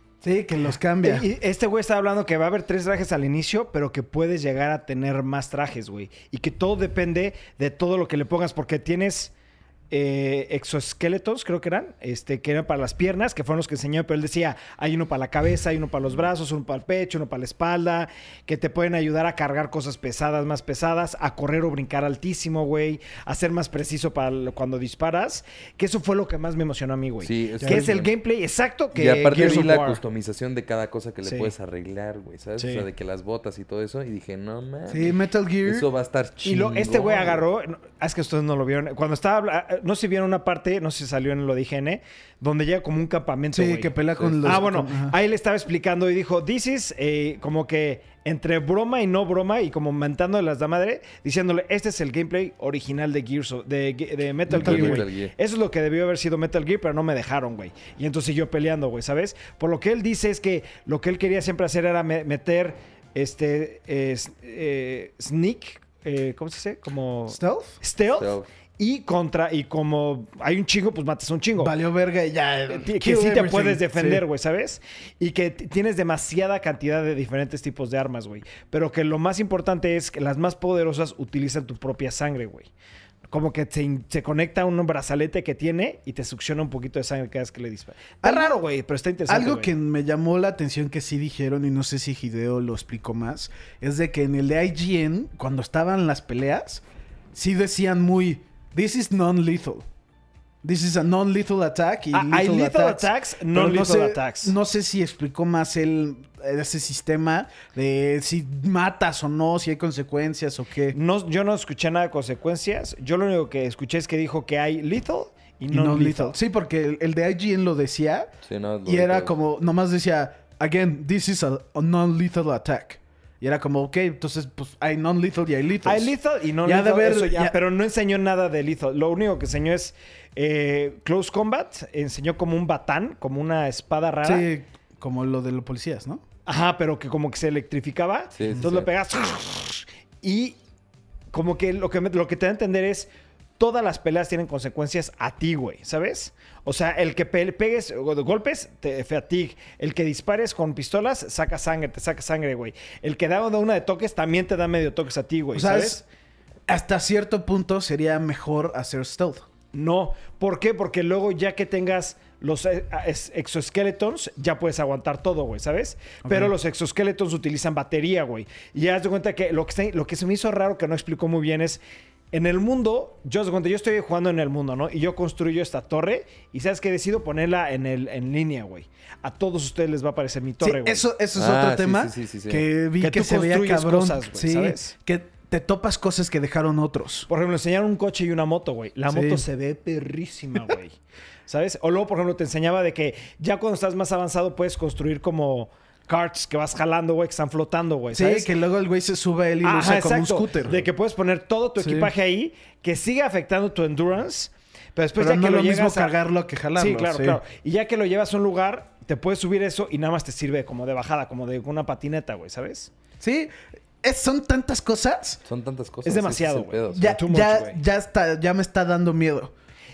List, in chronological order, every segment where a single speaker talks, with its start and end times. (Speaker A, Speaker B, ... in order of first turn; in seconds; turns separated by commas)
Speaker A: 0.2-1.3, Speaker B: 1.0-9.3, Speaker B: 9.9-30.0, Speaker C: 27.2-28.1, Speaker A: 27.6-28.0, Speaker C: 28.9-37.4, Speaker B: 31.2-31.5, Speaker B: 32.6-32.9, Speaker A: 34.9-35.9, Speaker B: 36.4-71.7, Speaker A: 43.5-45.1, Speaker C: 44.1-44.6, Speaker A: 54.5-55.0, Speaker C: 54.5-55.3, Speaker A: 67.3-67.8, Speaker C: 68.1-68.5, Speaker A: 71.6-74.2, Speaker B: 72.7-82.7, Speaker B: 83.3-89.7, Speaker A: 88.2-88.6, Speaker A: 89.3-99.8, Speaker A: 100.6-111.0, Speaker B: 102.1-104.5, Speaker B: 110.9-116.4, Speaker A: 115.7-118.3, Speaker C: 118.4-119.3, Speaker A: 118.8-127.6, Speaker B: 125.8-134.5, Speaker A: 134.2-136.2, Speaker B: 136.4-140.6, Speaker C: 138.4-138.8, Speaker B: 141.3-156.0, Speaker A: 155.5-156.0, Speaker A: 156.7-159.4, Speaker B: 159.7-181.0, Speaker A: 166.2-166.5, Speaker A: 180.6-187.3, Speaker C: 181.3-182.7, Speaker B: 183.0-184.9, Speaker B: 187.3-190.9, Speaker A: 189.1-189.4, Speaker B: 191.5-198.5, Speaker A: 198.1-200.8, Speaker B: 199.6-206.2, Speaker A: 201.8-202.1, Speaker A: 205.2-207.4, Speaker B: 206.7-212.9, Speaker A: 213.2-215.4, Speaker C: 215.4-217.1, Speaker B: 216.0-217.8, Speaker A: 216.9-219.5